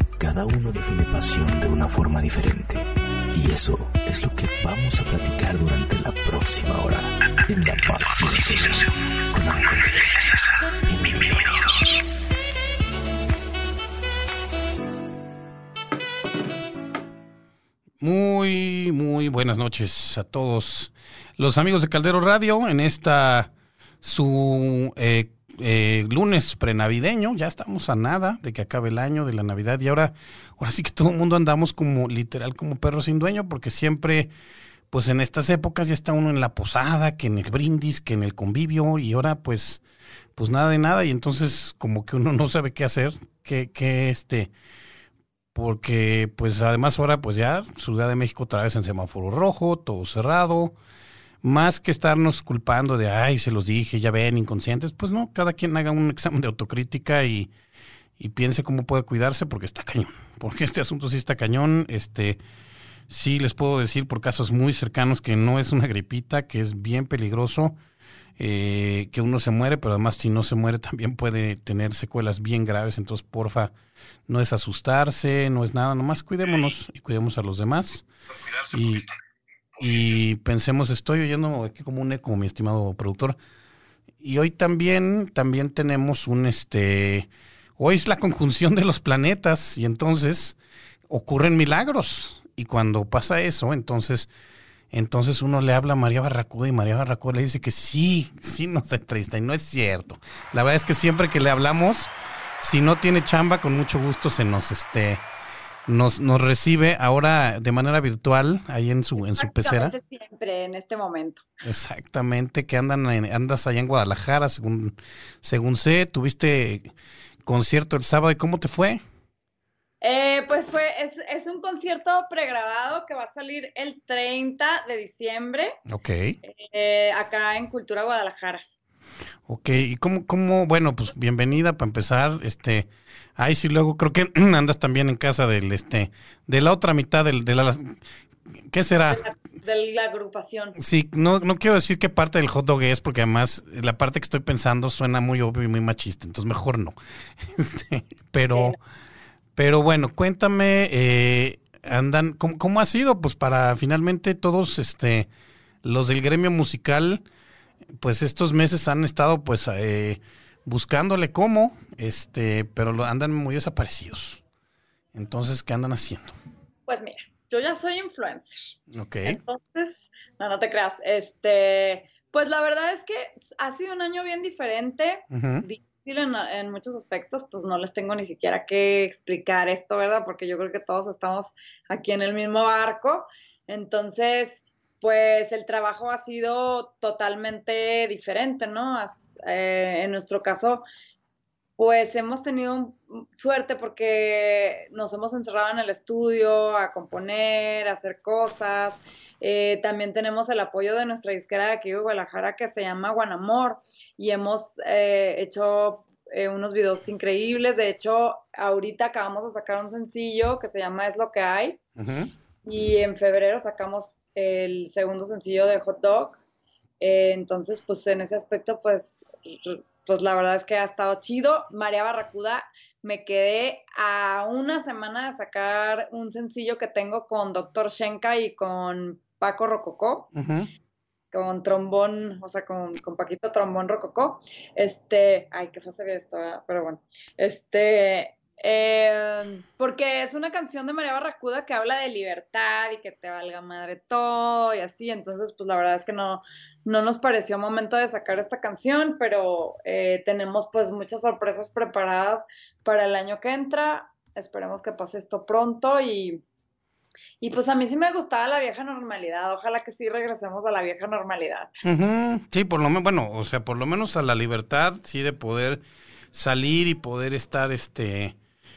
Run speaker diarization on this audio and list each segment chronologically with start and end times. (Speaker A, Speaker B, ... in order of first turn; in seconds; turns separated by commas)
Speaker A: 0.2-12.0, Speaker B: 18.0-23.5, Speaker B: 24.0-34.3, Speaker B: 34.9-39.8, Speaker B: 40.4-44.5, Speaker B: 45.5-50.7, Speaker B: 51.4-57.5, Speaker B: 58.2-62.4, Speaker B: 63.1-67.7, Speaker B: 68.4-73.7, Speaker B: 74.3-78.0, Speaker B: 78.7-79.1, Speaker B: 79.8-83.4, Speaker B: 84.2-90.6, Speaker B: 91.1-94.3, Speaker B: 94.9-105.2, Speaker B: 105.9-109.9, Speaker C: 109.2-111.5, Speaker B: 111.6-116.9, Speaker B: 117.5-119.0, Speaker C: 120.0-125.8, Speaker B: 125.9-126.4, Speaker C: 126.4-128.6, Speaker B: 129.5-138.0, Speaker B: 138.7-139.2, Speaker C: 139.1-140.8, Speaker B: 140.8-148.8, Speaker B: 149.6-155.3, Speaker B: 155.8-157.2, Speaker B: 158.0-164.4, Speaker B: 165.1-166.3, Speaker C: 166.9-190.8, Speaker B: 168.9-169.4, Speaker B: 175.3-175.7, Speaker C: 191.8-211.8, Speaker B: 212.0-212.3, Speaker C: 212.6-216.4, Speaker C: 217.0-230.3, Speaker B: 230.3-230.7, Speaker C: 231.3-256.4, Speaker C: 257.4-261.7, Speaker B: 261.8-265.8, Speaker B: 266.3-268.4